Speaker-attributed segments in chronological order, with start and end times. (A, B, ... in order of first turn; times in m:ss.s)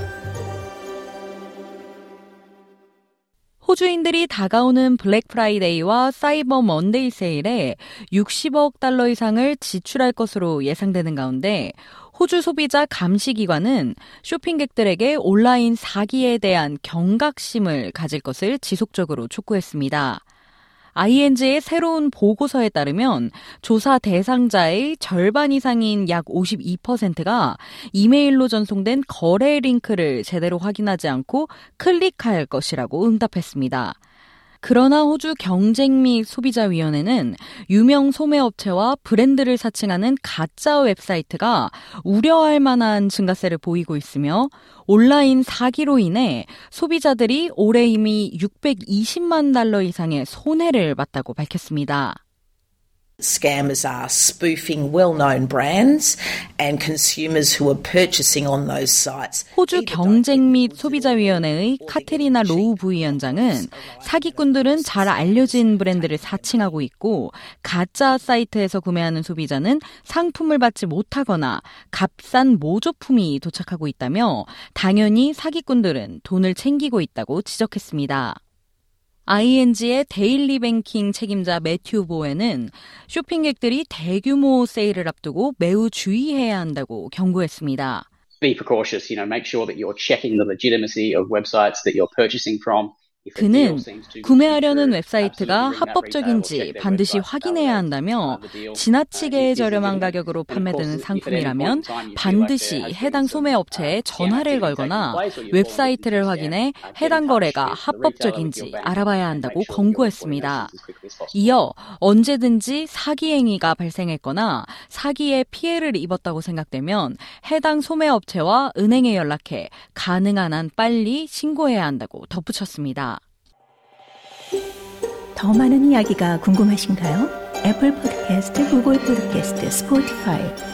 0:03.6-0:20.2 A
0:20.9-0:34.0 A
0:34.6-0:52.2 A
0:53.2-1:06.7 B
0:59.6-1:18.4 A
1:19.2-1:28.0 A
1:28.4-1:51.6 C
1:33.4-1:50.7 A
1:51.3-2:03.2 A
2:05.4-2:10.6 D